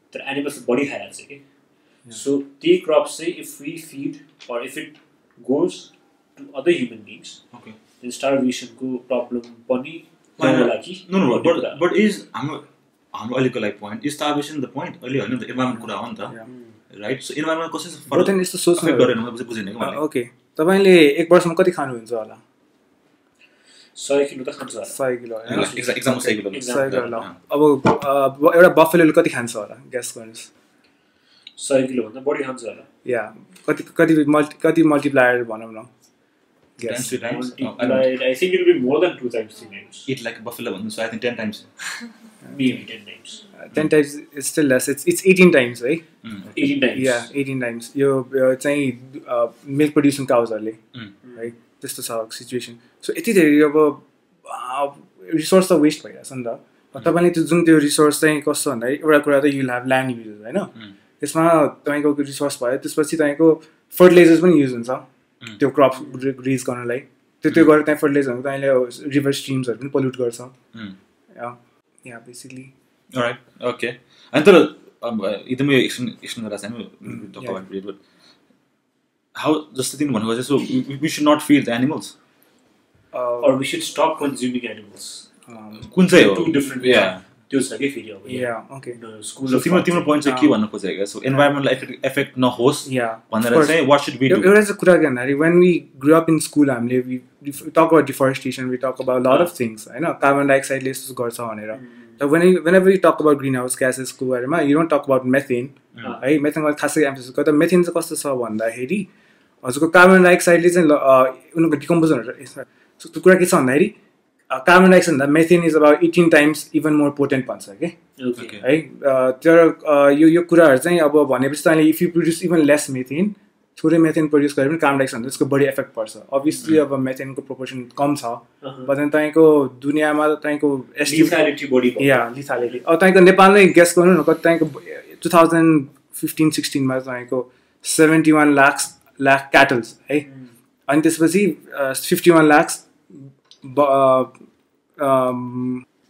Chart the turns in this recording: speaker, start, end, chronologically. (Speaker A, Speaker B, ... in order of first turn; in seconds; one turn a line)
Speaker A: 0.1-1.4
Speaker A: 2.1-7.4
Speaker A: 8.0-11.8
Speaker B: 10.4-16.3
Speaker C: 15.7-16.5
Speaker A: 16.4-16.8
Speaker B: 16.9-20.0
Speaker C: 18.1-19.1
Speaker C: 19.8-22.4
Speaker A: 23.9-27.2
Speaker C: 24.9-30.5
Speaker B: 25.4-27.3
Speaker A: 31.6-32.9
Speaker C: 33.0-35.9
Speaker C: 36.8-37.1
Speaker B: 36.8-38.1
Speaker A: 36.9-40.1
Speaker B: 40.1-41.7
Speaker C: 42.4-42.8
Speaker A: 42.5-43.4
Speaker C: 43.5-46.0
Speaker B: 46.2-46.8
Speaker A: 46.5-47.3
Speaker C: 46.9-50.8
Speaker A: 51.2-51.5
Speaker C: 51.3-65.1
Speaker C: 65.6-70.5
Speaker A: 65.9-66.2
Speaker B: 67.5-67.7
Speaker C: 71.3-72.7
Speaker B: 73.1-78.0
Speaker C: 77.0-77.6
Speaker B: 79.3-82.1
Speaker C: 83.1-83.5
Speaker A: 83.4-85.3
Speaker C: 85.5-85.9
Speaker B: 85.8-87.2
Speaker A: 86.1-90.1
Speaker C: 88.2-89.0
Speaker B: 89.4-94.5
Speaker C: 90.2-90.5
Speaker C: 92.8-109.1
Speaker A: 99.3-99.5
Speaker A: 101.7-102.2
Speaker C: 109.6-113.9
Speaker C: 114.5-118.0
Speaker A: 118.2-118.6
Speaker B: 118.4-118.6
Speaker C: 118.6-131.4
Speaker B: 126.5-126.8
Speaker A: 128.6-128.9
Speaker A: 131.0-132.8
Speaker C: 132.0-140.3
Speaker A: 140.2-140.5
Speaker C: 140.9-144.3
Speaker C: 145.0-145.8